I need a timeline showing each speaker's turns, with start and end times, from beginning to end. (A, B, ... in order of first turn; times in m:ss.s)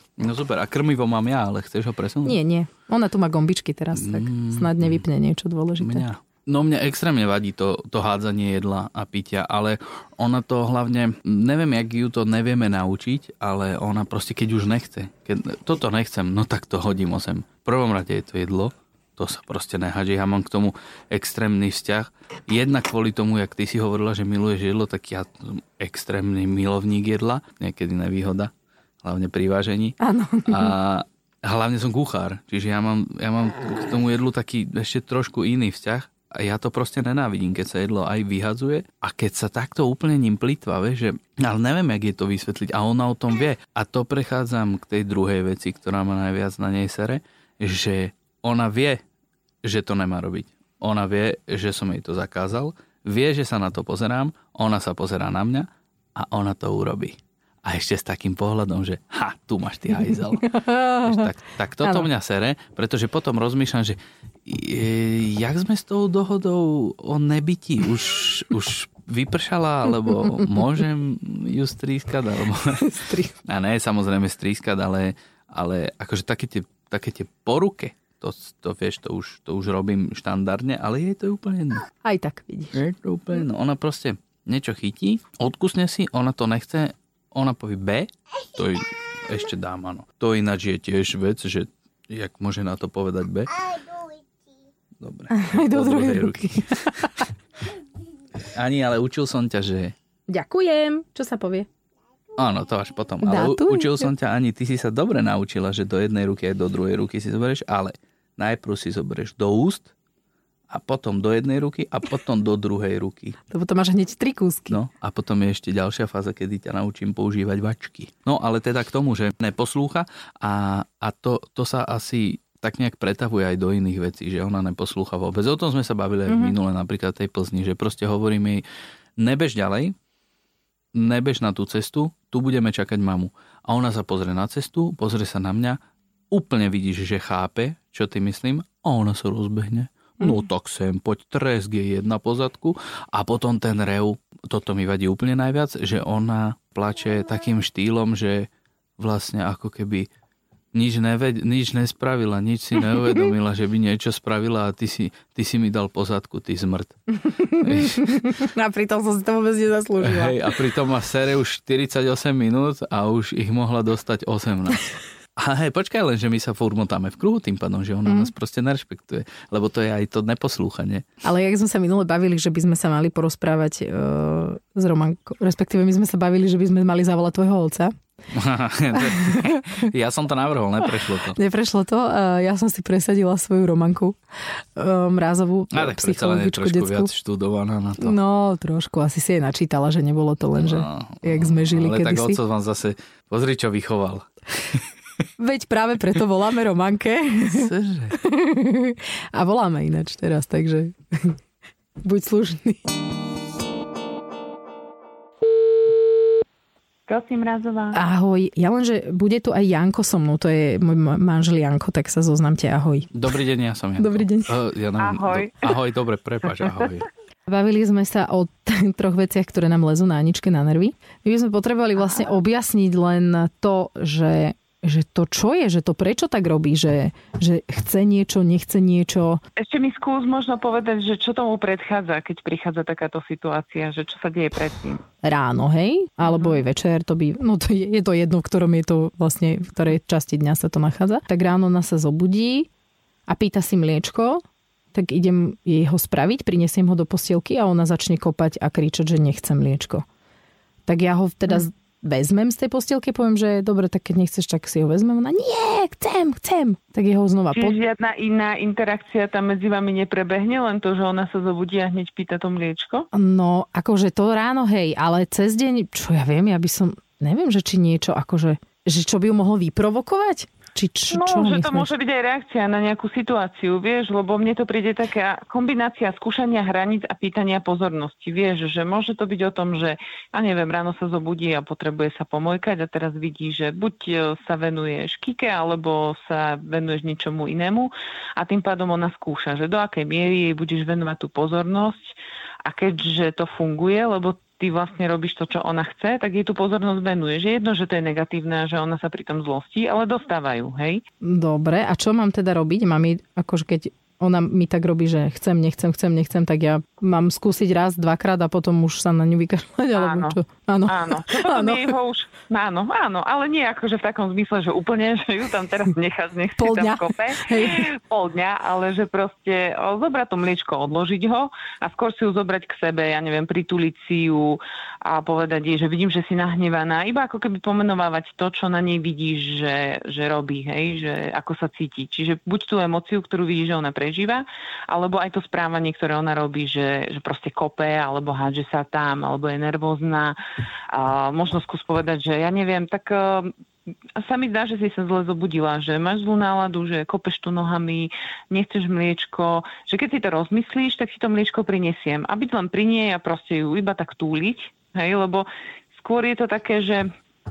0:00.2-0:02.4 A
0:02.2-0:06.0 B
0:03.9-0:05.0 A
0:05.8-0:28.5 A
0:29.0-0:49.0 A
0:30.0-0:30.7 B
0:49.6-1:12.9 A
1:00.0-1:01.3 B
1:01.8-1:02.1 B
1:12.8-1:13.4 B
1:13.4-1:21.8 A
1:22.0-1:22.8 B
1:22.7-1:33.6 A
1:35.0-1:37.1 A
1:35.3-1:37.3 B
1:38.5-1:40.0 A
1:40.3-1:41.7 B
1:42.4-1:49.9 A
1:43.2-1:44.1 B
1:50.7-1:53.4 A
1:53.5-1:54.8 B
1:54.7-2:08.6 A
2:06.3-2:06.6 B
2:09.2-2:10.0 A
2:10.9-2:15.8 A
2:16.3-2:30.1 A
2:30.7-2:37.0 A
2:37.2-2:40.4 B
2:37.5-2:38.4 A
2:40.0-2:51.0 A
2:48.1-2:48.3 B
2:51.2-2:58.0 B
2:58.3-3:01.4 A
2:59.0-2:59.9 B
3:01.4-3:07.1 B
3:05.7-3:08.2 A
3:08.0-3:12.4 B
3:10.6-3:14.9 A
3:15.4-3:21.4 B
3:17.5-3:18.2 A
3:22.0-3:22.8 B
3:27.1-3:28.0 C
3:27.9-3:33.1 B
3:33.1-3:37.1 A
3:34.0-3:34.6 B
3:35.0-3:35.7 C
3:37.5-3:49.4 B
3:49.6-3:55.0 C
3:55.2-4:02.7 B
4:03.3-4:04.4 B
4:04.9-4:10.0 B
4:10.9-4:17.8 B
4:17.6-4:23.1 C
4:23.1-4:31.9 B
4:31.1-5:01.0 C
5:01.2-5:11.9 B
5:10.0-5:40.4 C
5:16.6-5:17.9 B
5:40.9-5:43.5 C
5:44.2-5:57.1 C